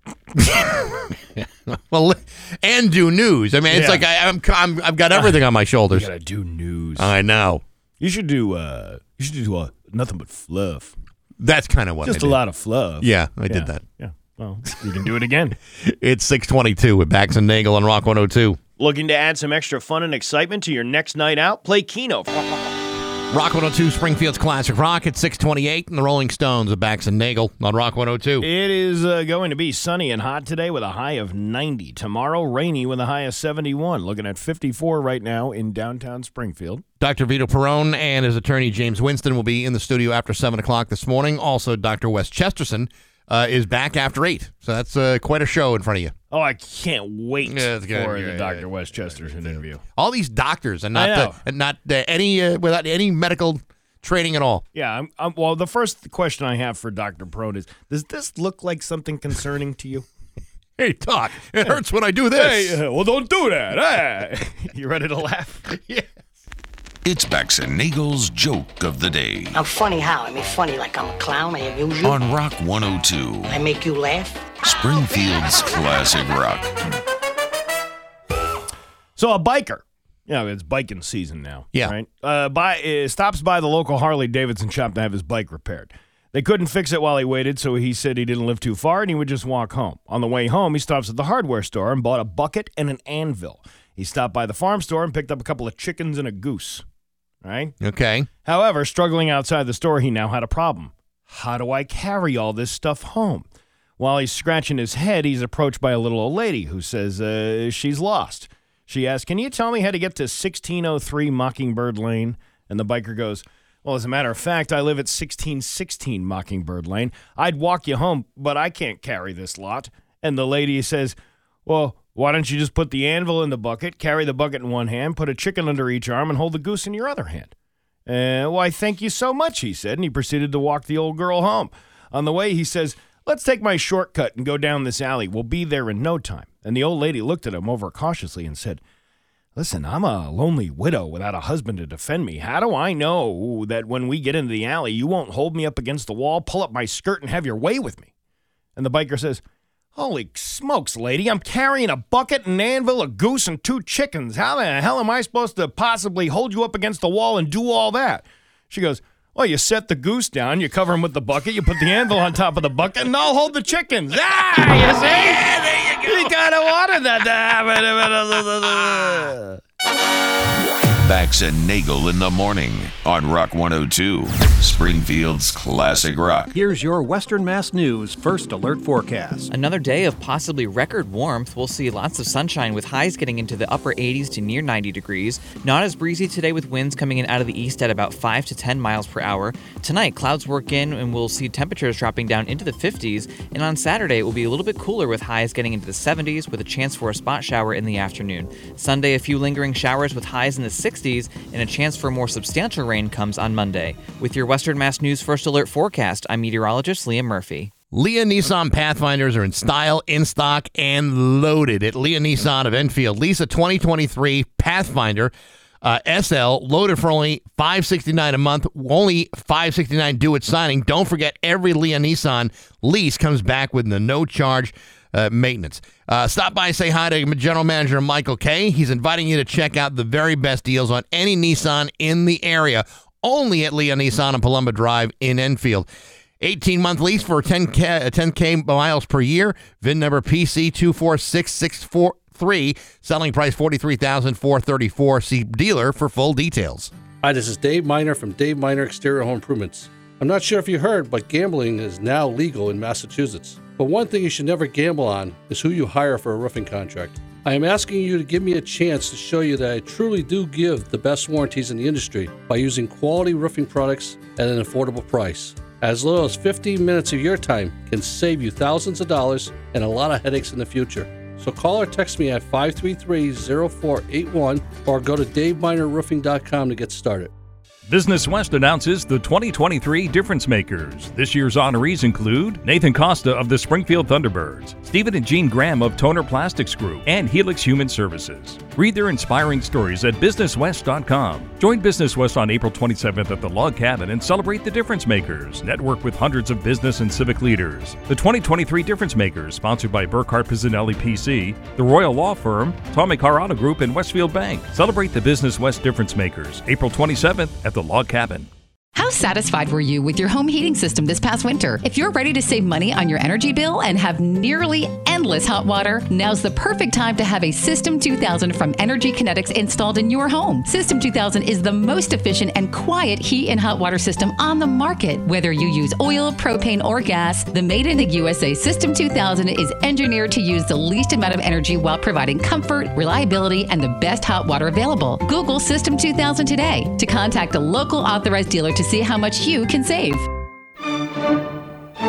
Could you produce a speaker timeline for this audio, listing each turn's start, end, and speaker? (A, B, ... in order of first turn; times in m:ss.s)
0:00.4-0:06.1 A
0:03.7-0:04.0 B
0:05.9-0:07.1 B
0:07.0-0:07.6 A
0:08.0-0:10.9 B
0:11.4-0:12.4 A
0:12.0-0:15.6 B
0:13.0-0:13.8 A
0:15.8-0:18.6 A
0:18.8-0:22.4 B
0:23.3-0:28.5 A
0:28.4-0:36.8 B
0:37.0-0:46.1 A
0:46.3-0:49.8 B
0:47.4-0:54.6 A
0:50.9-0:51.4 B
0:54.7-1:00.0 B
1:00.8-1:02.8 A
1:02.4-1:05.8 B
1:07.0-1:09.6 C
1:09.6-1:12.1 D
1:12.0-1:13.6 C
1:13.5-1:14.5 D
1:14.6-1:16.7 C
1:19.2-1:36.8 B
1:37.4-1:37.8 B
1:37.8-1:38.3 A
1:38.4-1:43.5 B
1:44.0-2:07.5 B
2:08.1-2:18.8 B
2:19.6-2:28.1 B
2:28.8-2:29.4 B
2:30.0-2:45.5 B
2:45.6-2:45.9 A
2:46.0-2:49.6 B
2:51.0-2:56.5 C
2:56.5-2:59.5 E
2:59.5-3:27.7 F
3:27.9-3:55.9 A
3:56.4-4:06.9 A
4:07.2-4:37.3 G
4:37.9-5:08.5 H
5:09.0-5:40.3 I